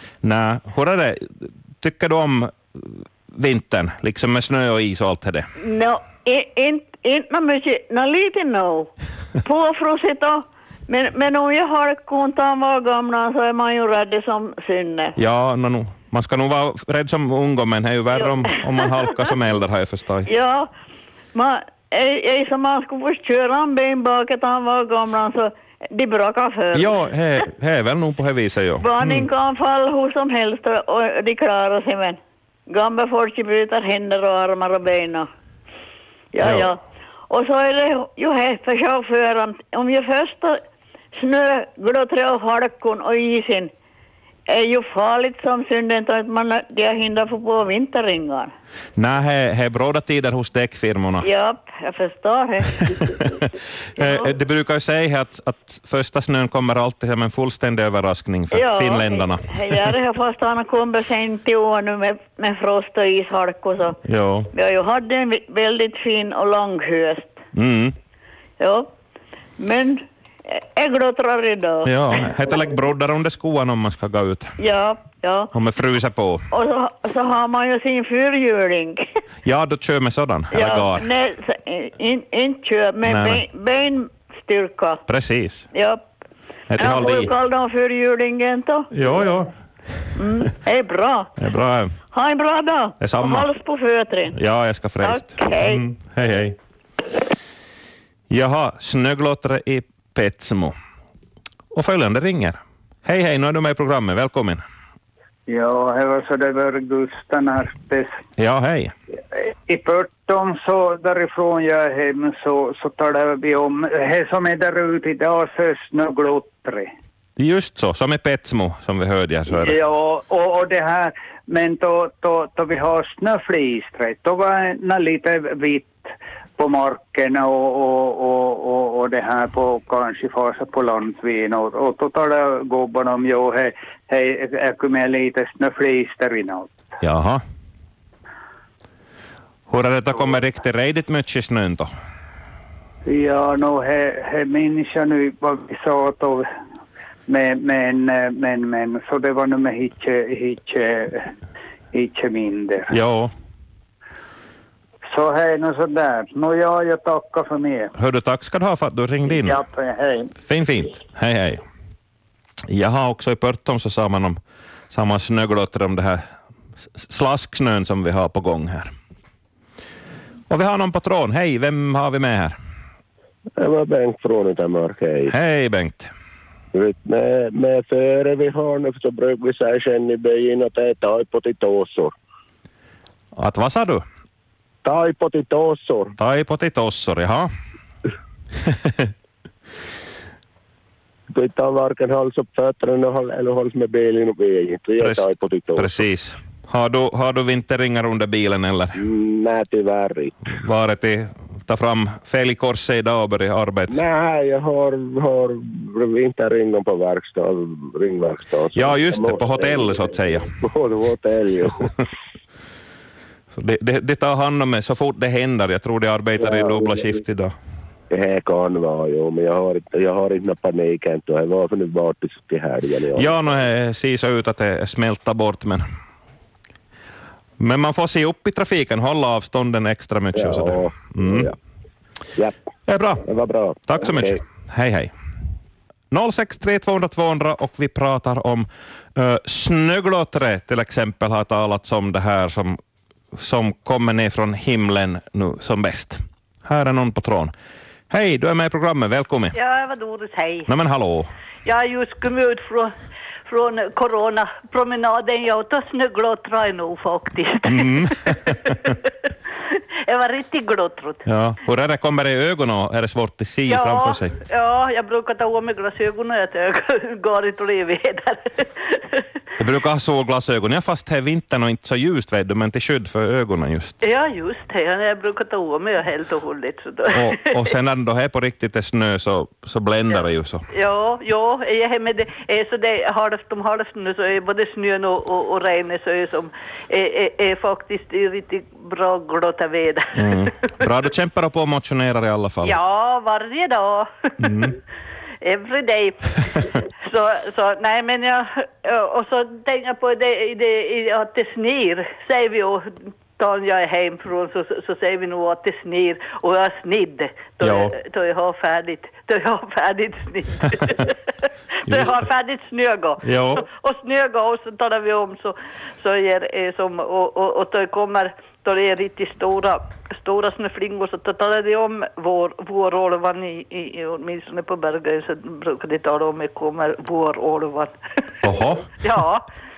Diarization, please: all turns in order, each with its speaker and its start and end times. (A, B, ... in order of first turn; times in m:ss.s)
0:00.2-0:05.5 A
0:05.6-0:08.9 B
0:09.4-0:15.2 B
0:15.2-0:20.3 A
0:18.2-0:19.1 B
0:20.3-0:20.7 B
0:21.3-0:27.0 B
0:26.7-0:29.3 A
0:28.8-0:35.3 B
0:36.3-0:40.6 B
0:36.4-0:36.7 A
0:41.1-0:43.7 B
0:44.5-0:48.5 B
0:49.0-0:51.3 A
0:51.2-0:53.1 B
0:52.8-0:53.5 A
0:54.0-0:59.9 A
0:54.0-0:54.3 B
0:58.5-1:04.0 B
1:04.0-1:04.5 A
1:04.5-1:07.4 B
1:07.6-1:08.0 A
1:08.6-1:08.9 B
1:09.6-1:11.9 B
1:11.8-1:14.6 A
1:14.6-1:15.5 B
1:15.5-1:16.5 A
1:16.5-1:19.1 B
1:19.4-1:21.1 A
1:20.5-1:25.0 B
1:23.0-1:23.4 A
1:25.1-1:25.7 A
1:25.7-1:26.0 B
1:26.7-1:27.3 A
1:26.8-1:28.9 B
1:28.9-1:29.5 A
1:30.2-1:31.3 B
1:31.4-1:32.0 A
1:32.1-1:34.4 B
1:33.0-1:33.5 A
1:34.3-1:36.6 A
1:35.0-1:35.8 B
1:38.3-1:40.8 A
1:41.7-1:44.6 A
1:45.5-1:48.2 C
1:48.4-1:48.9 A
1:49.3-1:56.9 C
1:57.4-1:59.8 A
1:59.5-2:16.8 C
2:17.0-2:17.4 A
2:19.7-2:21.9 A
2:23.1-2:26.5 C
2:27.3-2:31.3 C
2:31.9-2:32.9 C
2:32.9-2:33.3 A
2:35.1-2:37.9 C
2:38.0-2:39.6 A
2:39.3-2:40.3 C
2:40.5-2:41.6 A
2:42.7-2:44.4 A
2:44.9-2:46.2 A
2:47.0-2:48.9 A
2:50.5-2:52.6 A
2:53.6-2:55.3 D
2:55.3-2:56.1 A
2:56.7-3:02.1 D
3:03.4-3:04.0 A
3:04.8-3:06.2 D
3:06.2-3:07.5 A
3:08.7-3:09.1 A
3:11.3-3:16.0 D
3:15.0-3:15.2 A
3:15.8-3:19.0 A
3:19.0-3:20.4 D
3:20.6-3:24.0 A
3:23.9-3:31.9 D
3:28.8-3:30.5 A
3:33.6-3:37.5 A
3:36.4-3:37.1 D
3:38.1-3:43.3 D
3:43.2-3:45.8 A
3:47.6-3:51.5 A
3:50.4-3:51.5 D
3:52.9-3:53.2 A
3:53.2-3:54.4 D
3:53.9-3:55.1 A
3:56.1-4:02.8 A
4:03.3-4:07.5 A
4:08.1-4:09.6 A
4:09.5-4:10.7 E
4:10.7-4:11.3 A
4:11.6-4:12.9 E
4:13.5-4:19.1 E
4:17.7-4:19.0 A
4:19.7-4:21.2 E
4:21.2-4:24.4 A
4:23.7-4:29.2 E
4:29.6-4:34.0 A
4:34.0-4:37.5 E
4:37.1-4:40.6 A
4:40.1-4:50.7 E
4:50.2-4:52.8 A
4:52.6-4:54.8 E
4:54.4-4:54.7 A
4:55.4-5:11.2 E
5:07.6-5:07.9 A
5:11.8-5:28.0 E
5:11.9-5:12.1 A
5:13.2-5:13.6 A
5:28.4-5:29.0 A
5:29.0-5:29.4 E